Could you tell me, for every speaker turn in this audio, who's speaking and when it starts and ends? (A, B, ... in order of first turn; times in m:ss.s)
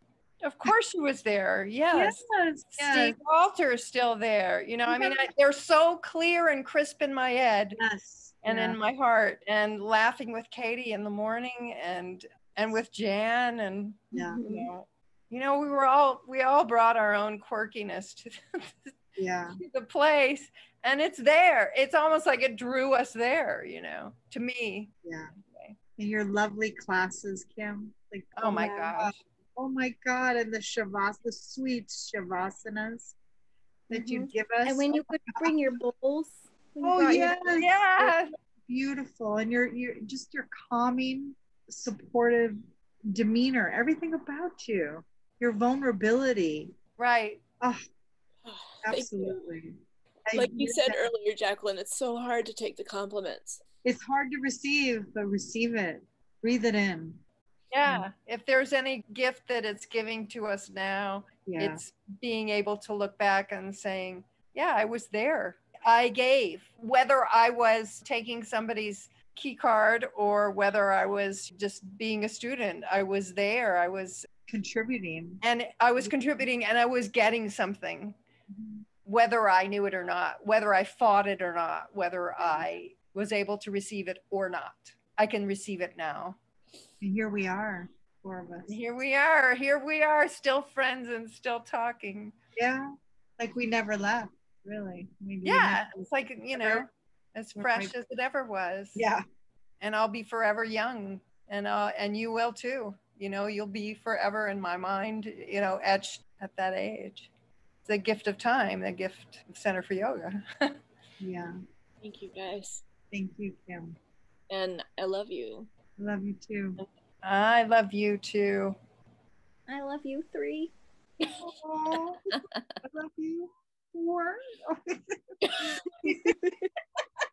0:00.4-0:02.2 A
0:01.9-0:03.2 B
0:02.8-0:07.8 A
0:04.9-0:05.3 B
0:07.8-0:08.8 B
0:08.4-0:18.9 A
0:14.1-0:14.6 B
0:14.2-0:14.6 C
0:19.2-0:19.6 B
0:19.6-0:24.9 A
0:25.0-0:25.3 B
0:25.4-0:25.8 A
0:26.0-0:33.2 B
0:28.4-0:29.2 A
0:28.5-0:28.9 C
0:33.9-0:35.6 B
0:33.9-0:37.5 C
0:36.8-0:38.1 B
0:37.6-0:38.3 A
0:38.6-0:46.7 B
0:47.0-0:47.4 A
0:48.4-0:49.4 D
0:48.8-0:51.1 B
0:50.3-0:53.6 D
0:53.8-0:57.2 B
0:57.7-1:14.3 A
1:01.4-1:01.8 B
1:14.5-1:15.4 B
1:15.4-1:18.2 A
1:18.5-1:18.8 B
1:19.0-1:26.4 A
1:22.4-1:22.7 B
1:27.0-1:28.8 B
1:28.7-1:32.3 A
1:32.6-1:35.8 B
1:35.4-1:39.0 A
1:36.5-1:36.8 B
1:37.6-1:37.9 B
1:38.9-1:39.2 B
1:39.8-1:47.3 A
1:47.8-1:50.8 A
1:51.2-1:51.6 B
1:52.0-1:52.8 D
1:53.1-1:54.0 B
1:54.5-1:55.7 D
1:56.0-1:56.8 B
1:57.2-1:58.8 A
1:59.7-2:00.7 C
2:01.2-2:06.4 B
2:02.3-2:02.6 D
2:05.4-2:05.8 D